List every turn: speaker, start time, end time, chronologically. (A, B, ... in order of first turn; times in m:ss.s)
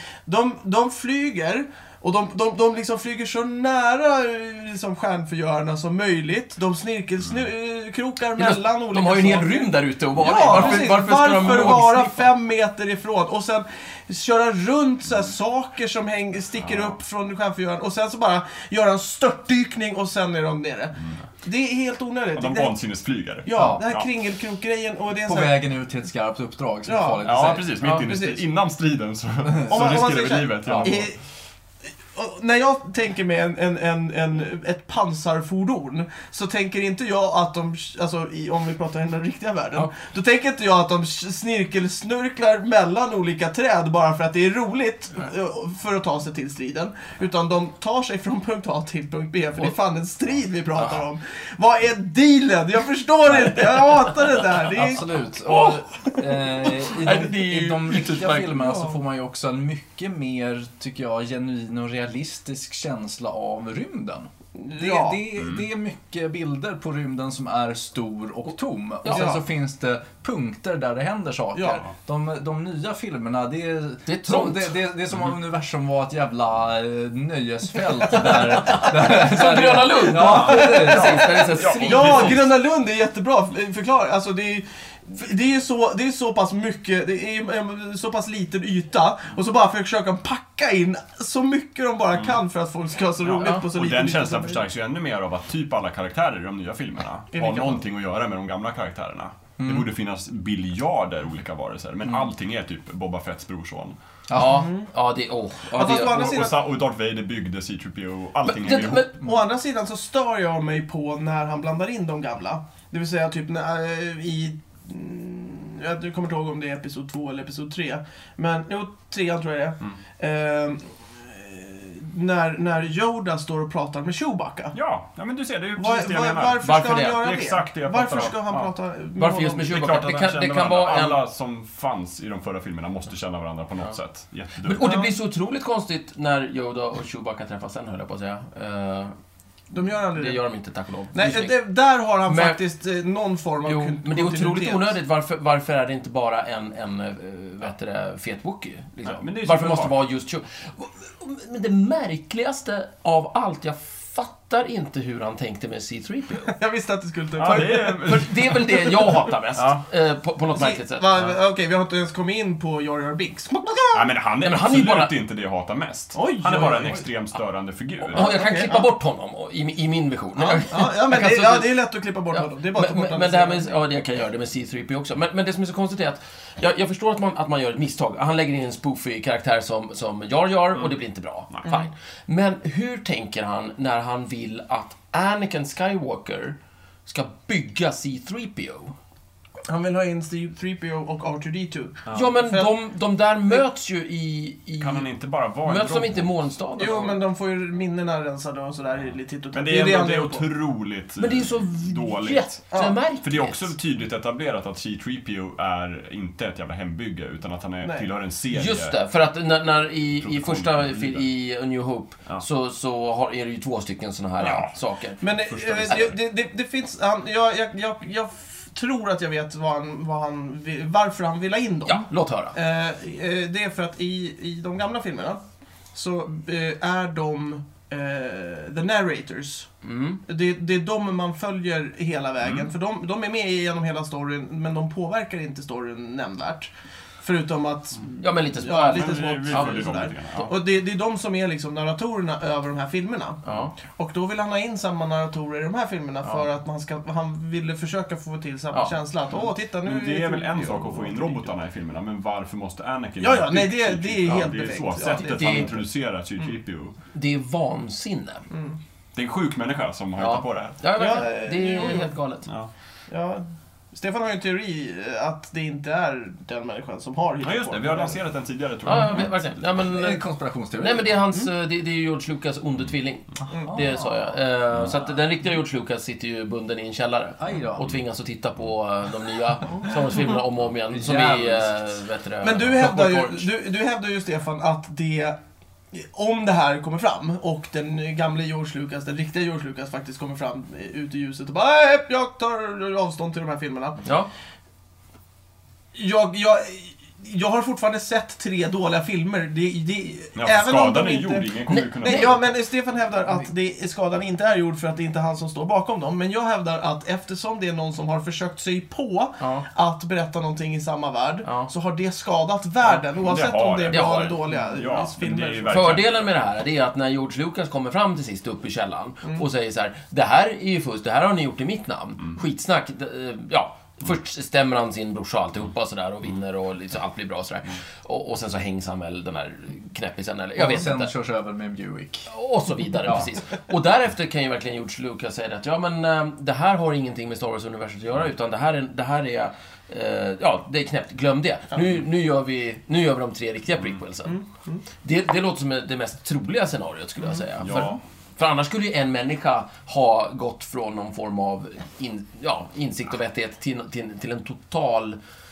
0:00.3-0:22.8 A
0:08.4-0:12.3 B
0:10.4-0:10.8 C
0:16.6-0:17.0 C
0:22.3-0:24.1 C
0:23.4-0:25.6 A
0:23.5-0:23.8 D
0:25.2-0:27.7 D
0:26.8-0:28.4 A
0:27.2-0:31.1 C
0:29.7-0:31.2 A
0:30.6-0:31.0 D
0:32.1-0:55.2 A
0:54.7-1:21.6 D
0:55.5-0:55.8 B
0:56.6-0:56.8 A
0:57.0-0:58.6 B
0:58.5-0:59.0 A
1:04.6-1:05.2 A
1:05.4-1:05.7 C
1:09.0-1:09.4 B
1:09.1-1:09.4 A
1:11.5-1:11.8 A
1:14.1-1:14.7 B
1:18.1-1:22.4 B
1:20.2-1:21.1 A
1:20.3-1:22.5 C
1:21.8-1:34.6 A
1:32.1-1:32.4 C
1:33.2-1:44.0 C
1:37.3-1:37.8 A
1:39.6-1:39.9 D
1:44.3-1:44.6 D
1:44.3-1:46.4 B
1:44.4-1:44.9 A
1:45.7-1:46.6 A
1:46.0-1:49.2 C
1:48.5-1:49.2 B
1:49.2-2:04.8 A
2:04.7-2:08.7 C
2:05.8-2:09.8 A
2:06.6-2:07.3 B
2:09.2-2:11.2 B
2:09.6-2:14.9 C
2:14.6-2:19.1 B
2:14.8-2:15.1 A
2:19.7-2:20.4 A
2:20.1-2:21.6 B
2:21.1-2:24.9 A
2:22.3-2:22.6 B
2:23.6-2:36.5 B
2:29.0-2:30.0 C
2:36.4-2:38.3 A
2:37.4-2:38.8 C
2:38.0-2:41.3 B
2:39.6-2:39.8 C
2:40.6-2:44.1 A
2:43.9-2:48.4 C
2:44.4-2:45.1 B
2:46.1-2:47.1 A
2:48.1-2:48.9 A
2:48.1-2:51.7 B
2:50.4-2:53.7 A
2:52.3-3:09.0 B
3:09.7-3:12.7 A
3:12.1-3:15.1 B
3:14.8-3:16.4 C
3:15.6-3:17.2 B
3:16.8-3:20.5 A
3:19.5-3:22.6 C
3:21.2-3:23.7 B
3:22.7-3:23.0 A
3:23.2-3:29.0 C
3:28.5-3:35.2 B
3:30.2-3:31.3 C
3:34.4-3:34.7 C
3:35.2-3:45.4 A
3:35.5-3:36.2 C
3:41.9-3:42.6 B
3:45.9-3:49.7 A
3:49.8-3:50.2 B
3:50.3-3:56.7 A
3:52.4-3:52.7 C
3:57.2-4:11.5 A
3:58.2-4:00.5 B
3:58.9-4:00.5 C
4:03.4-4:03.7 B
4:09.4-4:17.0 C
4:13.2-4:15.8 A
4:15.2-4:15.7 B
4:17.1-4:18.5 B
4:18.5-4:18.8 A
4:19.1-4:20.8 C
4:20.2-4:22.5 B
4:21.0-4:22.1 A
4:22.5-4:22.7 C
4:23.1-4:28.2 A
4:27.4-4:29.6 C
4:28.8-4:30.2 B
4:29.8-4:31.2 D
4:30.8-4:43.5 B
4:33.5-4:34.2 D
4:37.4-4:37.9 D
4:40.9-4:41.8 D
4:42.4-4:45.4 A
4:45.9-4:54.0 A
4:54.0-4:54.3 B
4:56.0-5:15.9 A
5:00.4-5:02.5 C
5:01.7-5:02.4 B
5:09.4-5:09.6 B
5:11.5-5:11.7 B
5:13.0-5:16.2 C
5:13.9-5:14.4 B
5:15.7-5:31.1 B
5:30.6-5:32.3 D
5:32.3-5:44.4 B
5:44.3-5:44.8 A
5:45.0-5:55.2 B
5:47.6-5:48.0 C